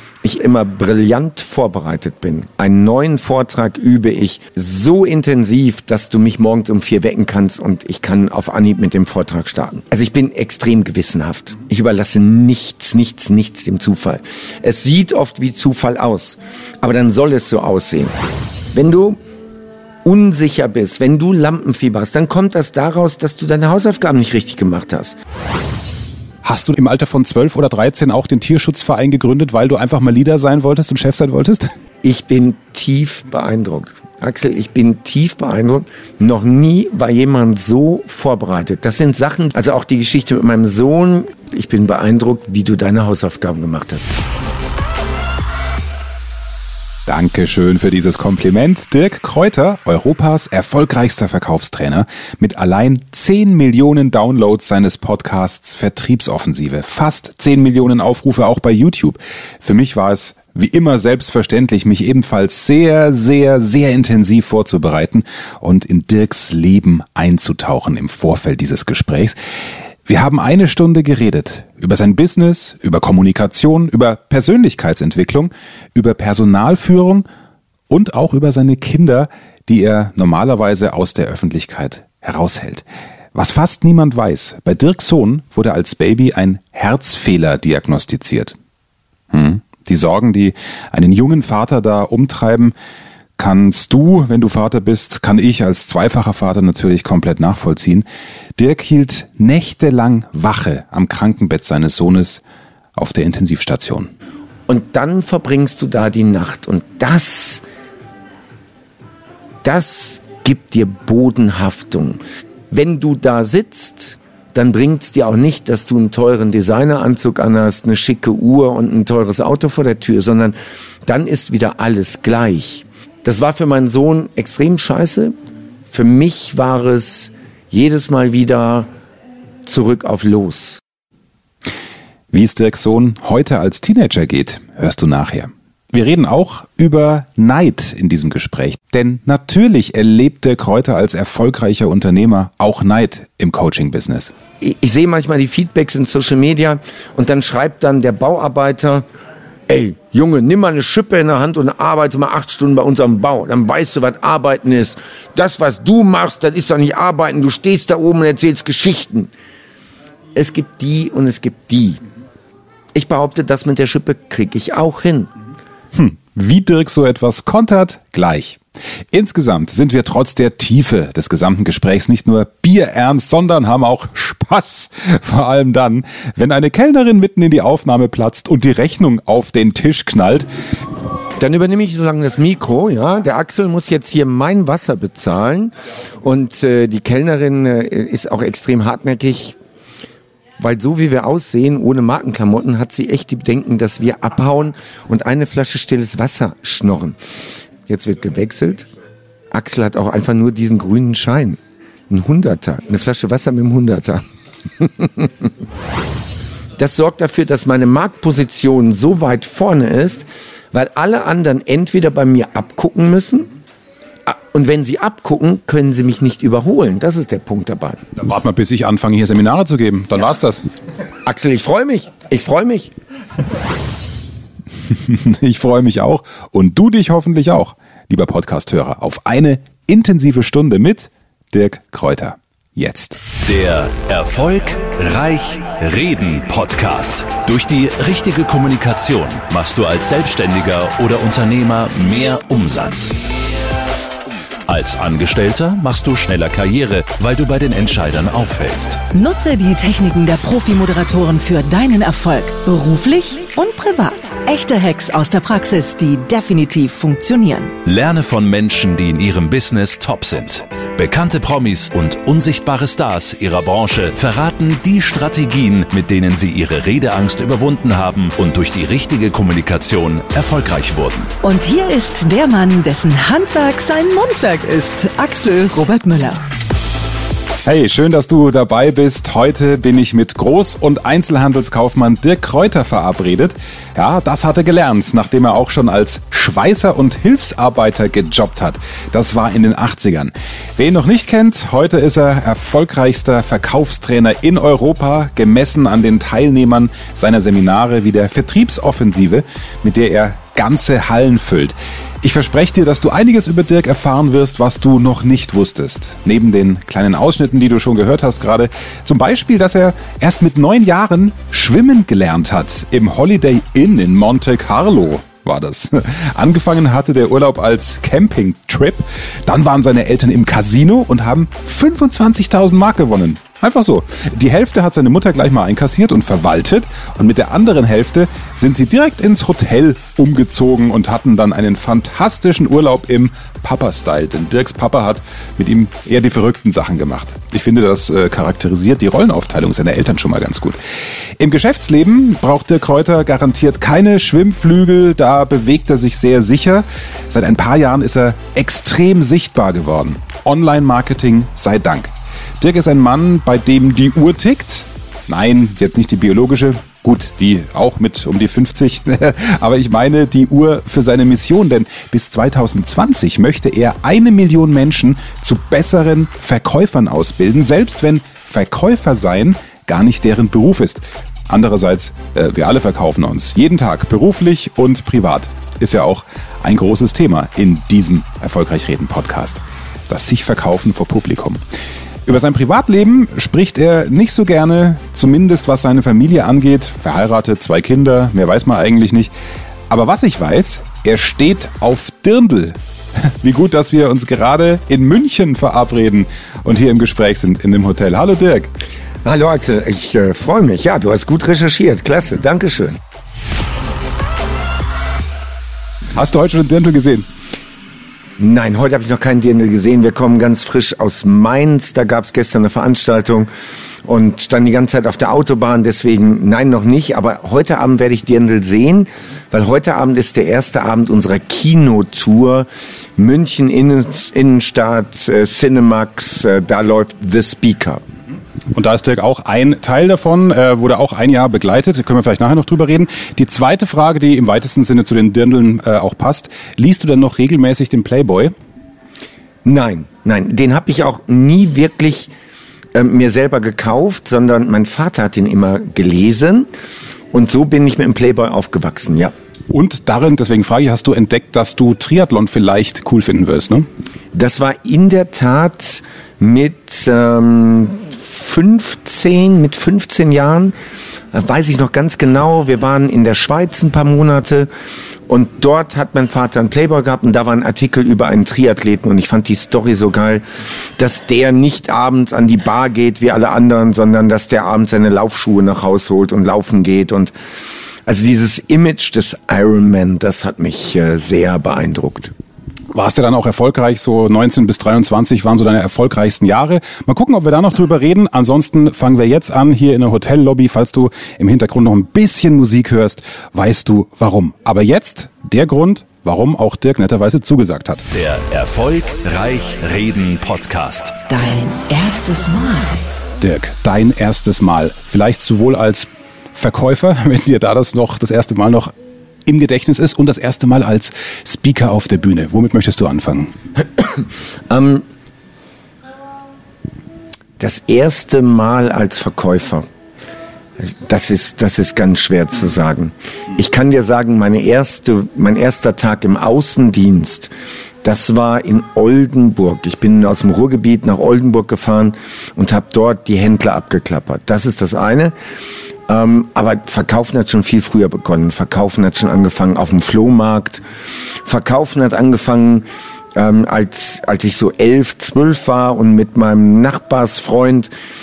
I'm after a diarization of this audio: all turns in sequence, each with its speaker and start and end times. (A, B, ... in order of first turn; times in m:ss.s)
0:00.2-0:18.1 A
0:18.7-0:19.2 A
0:20.0-0:25.2 A
0:26.4-0:31.7 B
0:32.0-0:44.1 A
0:47.0-1:09.4 B
1:10.0-1:17.2 B
1:17.9-1:28.5 B
1:29.3-1:32.7 B
1:33.4-1:42.4 B
1:43.0-1:44.1 B
1:44.7-1:47.6 A
1:49.6-2:05.3 A
2:05.9-2:08.9 A
2:09.6-2:10.8 A
2:12.3-2:24.3 B
2:24.6-2:29.0 A
2:29.7-2:39.3 A
2:40.3-2:42.0 A
2:42.9-2:45.3 A
2:45.9-3:00.5 B
3:01.4-3:09.6 A
3:10.6-3:17.2 A
3:17.9-3:18.9 A
3:19.5-3:24.2 A
3:24.8-3:25.5 A
3:26.8-3:33.5 A
3:34.2-3:38.0 A
3:38.2-3:40.6 B
3:41.2-3:42.9 A
3:44.9-3:53.2 B
3:53.4-4:03.2 C
4:04.6-4:09.0 C
4:09.1-4:17.8 D
4:17.8-4:31.3 C
4:31.4-4:36.4 D
4:37.6-5:40.8 B
5:41.4-6:21.6 B
6:22.2-6:29.3 B
6:29.9-6:38.7 B
6:39.2-6:43.0 A
6:46.1-6:47.3 B
6:48.4-6:53.5 A
6:54.0-7:08.0 A
7:08.7-7:18.5 B
7:19.6-7:22.3 A
7:22.9-7:26.7 A
7:27.3-7:29.3 A
7:29.7-7:33.8 B
7:34.3-7:40.7 A
7:41.3-7:44.7 A
7:45.3-7:50.4 A
7:51.0-7:57.3 A
7:58.0-8:02.3 A
8:02.9-8:18.0 B
8:18.1-8:21.2 C
8:21.3-8:23.0 D
8:23.4-8:28.9 B
8:29.4-8:33.5 B
8:34.0-8:35.0 A
8:37.6-8:39.8 A
8:40.8-8:47.5 A
8:48.0-8:55.3 A
8:56.1-9:00.8 A
9:01.4-9:07.9 A